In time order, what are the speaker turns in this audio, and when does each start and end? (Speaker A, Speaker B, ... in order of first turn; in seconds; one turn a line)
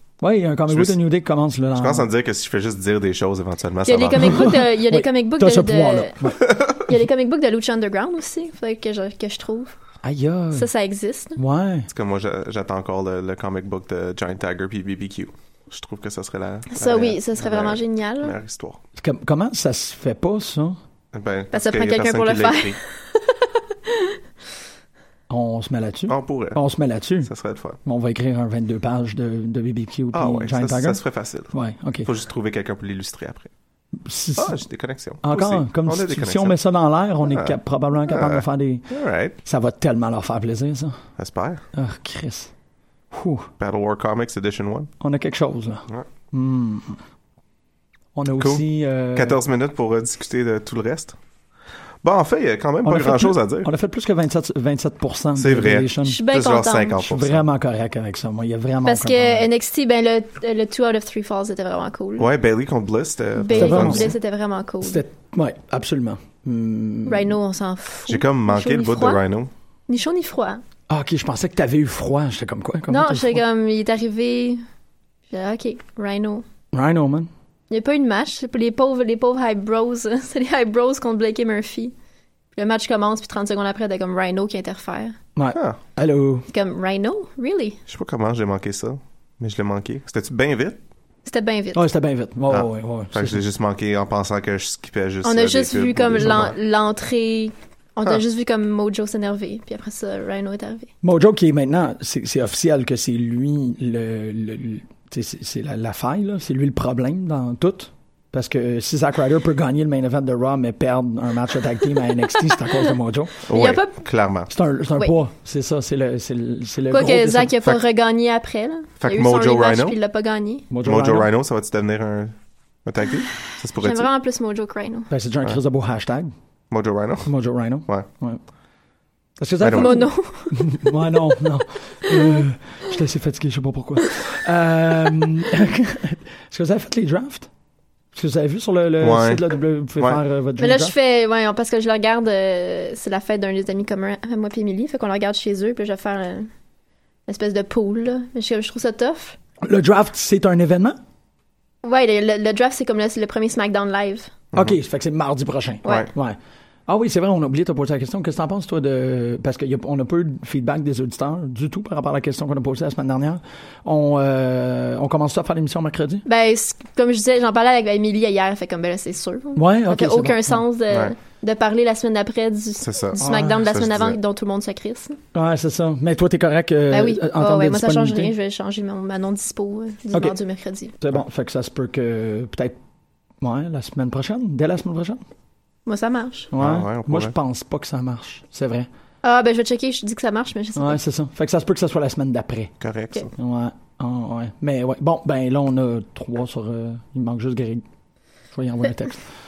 Speaker A: 0.2-2.1
Speaker B: 0.7-0.9
Speaker B: 1.8-4.6
Speaker C: 3.8-9.8
Speaker A: 4.2-6.4
Speaker A: 10.0-10.7
Speaker C: 10.5-11.4
Speaker A: 11.3-11.9
Speaker B: 11.9-18.8
Speaker C: 16.7-18.4
Speaker A: 19.0-20.8
Speaker B: 21.1-22.8
Speaker C: 21.5-23.2
Speaker C: 23.9-24.1
Speaker A: 25.3-27.3
Speaker B: 26.1-26.6
Speaker B: 27.2-27.8
Speaker A: 27.8-32.1
Speaker B: 30.1-31.5
Speaker B: 32.0-33.5
Speaker A: 34.0-34.6
Speaker B: 34.4-36.5
Speaker A: 35.2-38.9
Speaker B: 37.3-39.3
Speaker A: 39.4-41.0
Speaker B: 41.2-41.6
Speaker A: 41.7-42.5
Speaker A: 43.1-43.5
Speaker B: 43.6-44.9
Speaker A: 45.0-47.0
Speaker A: 48.1-49.4
Speaker B: 48.4-48.6
Speaker B: 49.1-51.1
Speaker B: 52.0-53.7
Speaker A: 52.8-56.2
Speaker B: 55.4-57.4
Speaker C: 56.0-57.1
Speaker A: 57.0-59.5
Speaker C: 58.8-62.3
Speaker B: 62.2-64.1
Speaker C: 63.4-65.0
Speaker A: 63.5-64.1
Speaker A: 64.8-67.3
Speaker C: 67.1-69.2
Speaker B: 68.1-69.5
Speaker C: 69.9-70.6
Speaker A: 70.9-73.4
Speaker C: 72.9-74.6
Speaker C: 75.3-76.4
Speaker A: 76.7-77.3
Speaker C: 77.7-81.9
Speaker C: 82.5-85.2
Speaker A: 85.3-86.5
Speaker C: 86.5-87.8
Speaker B: 87.9-90.8
Speaker C: 91.2-91.8
Speaker A: 91.7-93.4
Speaker B: 92.5-96.5
Speaker C: 95.2-100.9
Speaker A: 101.0-113.5
Speaker B: 113.5-114.5
Speaker C: 113.5-113.9
Speaker A: 114.5-117.5
Speaker C: 116.9-120.7
Speaker B: 119.0-120.0
Speaker A: 120.7-121.3
Speaker B: 120.8-124.1
Speaker C: 123.8-125.1
Speaker A: 125.1-126.3
Speaker B: 126.7-127.3
Speaker A: 127.2-128.4
Speaker A: 129.4-137.5
Speaker B: 129.6-129.9
Speaker C: 129.7-130.8
Speaker A: 138.1-140.9
Speaker B: 139.0-139.4
Speaker C: 140.6-146.5
Speaker C: 147.3-149.4
Speaker A: 149.6-151.0
Speaker C: 151.8-154.3
Speaker A: 154.5-166.2
Speaker C: 166.2-175.2
Speaker A: 169.6-170.6
Speaker B: 172.8-174.2
Speaker A: 173.2-173.6
Speaker A: 175.3-178.3
Speaker C: 176.9-180.9
Speaker A: 181.0-182.7
Speaker A: 183.4-185.2
Speaker C: 185.8-186.5
Speaker A: 186.5-188.9
Speaker B: 186.6-187.3
Speaker C: 189.2-191.0
Speaker A: 190.8-192.7
Speaker B: 192.8-193.3
Speaker A: 193.3-197.8
Speaker A: 198.5-199.2